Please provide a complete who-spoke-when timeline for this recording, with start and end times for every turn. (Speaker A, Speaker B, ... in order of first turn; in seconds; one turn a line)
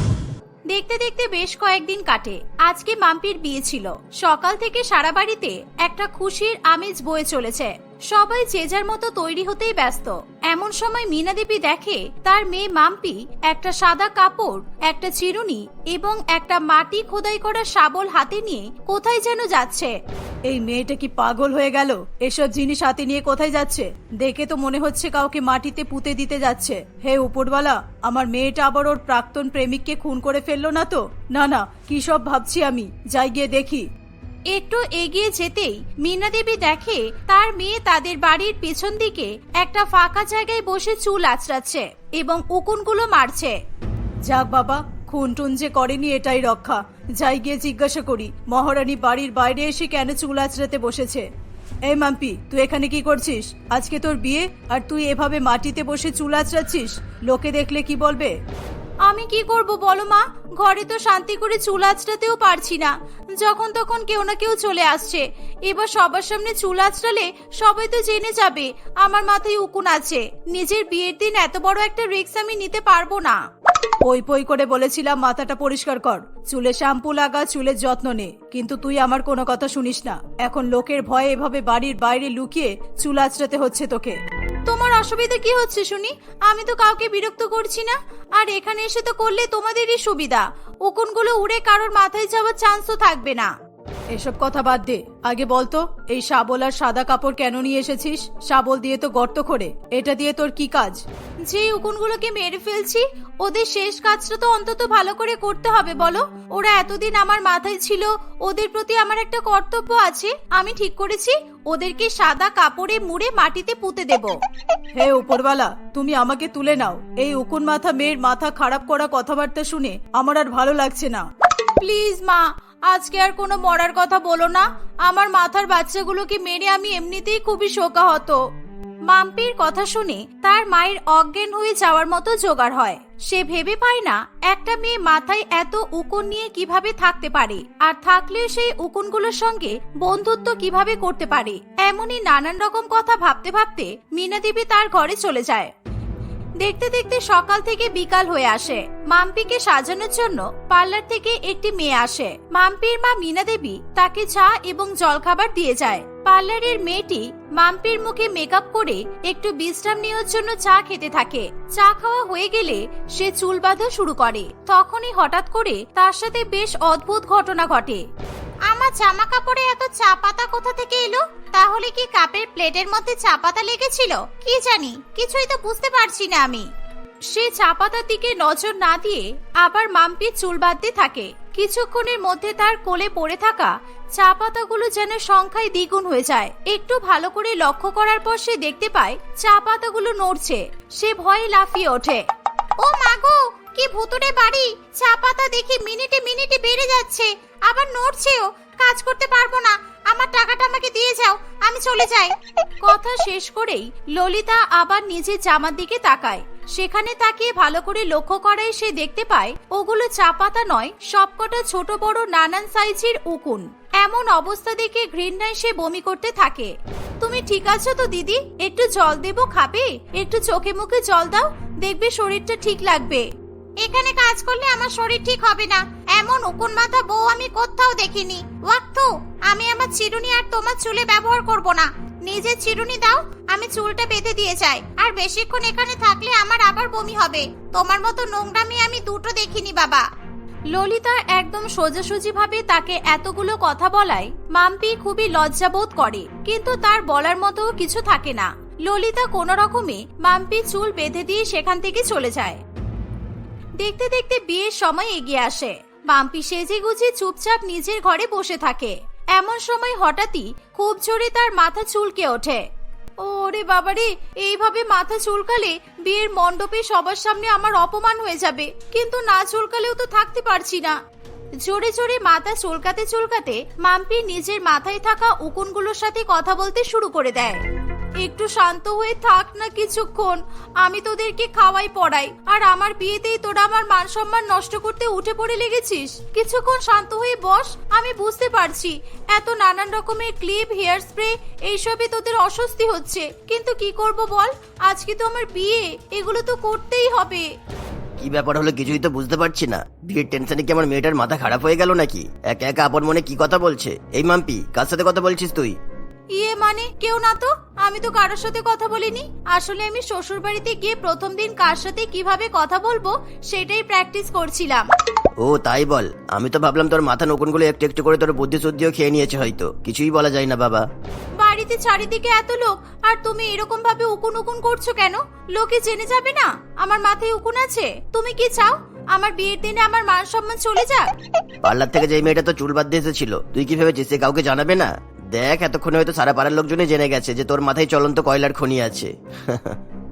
Speaker A: 0.7-20.0
Speaker B: 20.5-33.9
Speaker A: 34.5-43.6
Speaker B: 44.2-51.3
Speaker B: 51.9-58.4
Speaker A: 59.0-73.4
Speaker B: 74.0-84.2
Speaker A: 84.7-93.5
Speaker B: 94.1-101.0
Speaker A: 101.5-114.4
Speaker B: 115.0-121.3
Speaker A: 121.8-128.4
Speaker A: 129.1-145.7
Speaker A: 146.6-168.1
Speaker A: 168.7-176.7
Speaker A: 177.3-192.2
Speaker A: 192.8-223.3
Speaker A: 223.8-240.1
Speaker A: 240.7-252.6
Speaker A: 253.8-262.6
Speaker A: 263.2-271.0
Speaker A: 271.6-277.6
Speaker A: 278.2-297.5
Speaker C: 298.2-305.8
Speaker A: 306.3-314.9
Speaker C: 315.4-320.9
Speaker A: 321.4-331.1
Speaker C: 331.6-339.8